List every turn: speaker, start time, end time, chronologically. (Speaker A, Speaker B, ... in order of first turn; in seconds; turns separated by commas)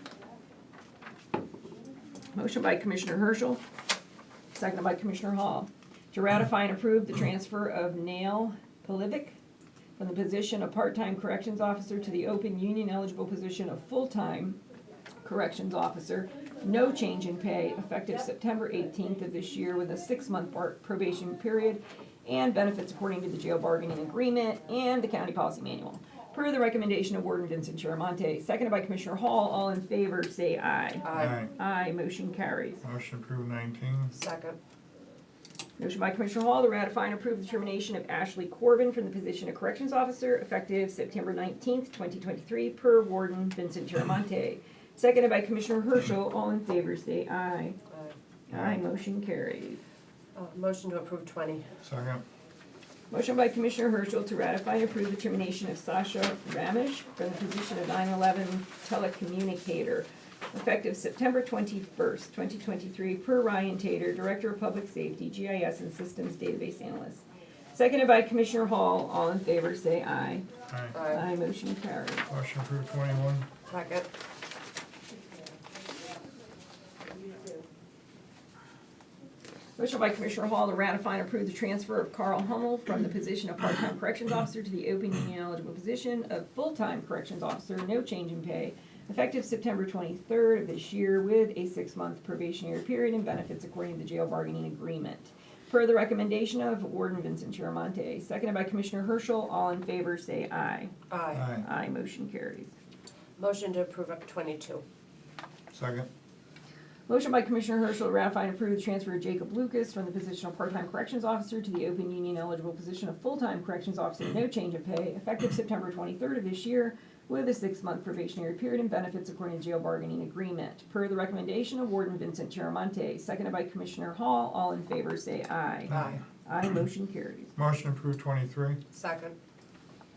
Speaker A: 2.3-3.6, Speaker A: 4.5-9.4, Speaker A: 10.0-14.6, Speaker A: 15.2-32.8, Speaker B: 31.0-31.4, Speaker C: 31.1-31.5, Speaker C: 32.8-34.1, Speaker B: 34.1-34.6, Speaker A: 35.8-47.8, Speaker A: 48.5-49.8, Speaker C: 48.5-48.8, Speaker B: 50.4-51.7, Speaker C: 51.8-52.2, Speaker A: 53.1-70.5, Speaker C: 70.7-71.0, Speaker B: 70.9-71.3, Speaker A: 71.1-72.3, Speaker C: 72.3-73.5, Speaker B: 73.7-74.1, Speaker A: 79.8-101.0, Speaker B: 101.1-101.5, Speaker C: 101.3-101.7, Speaker A: 101.5-102.7, Speaker B: 103.4-104.8, Speaker C: 105.7-106.1, Speaker A: 107.1-127.5, Speaker C: 125.9-126.2, Speaker B: 125.9-126.2, Speaker C: 127.5-128.8, Speaker B: 128.9-129.3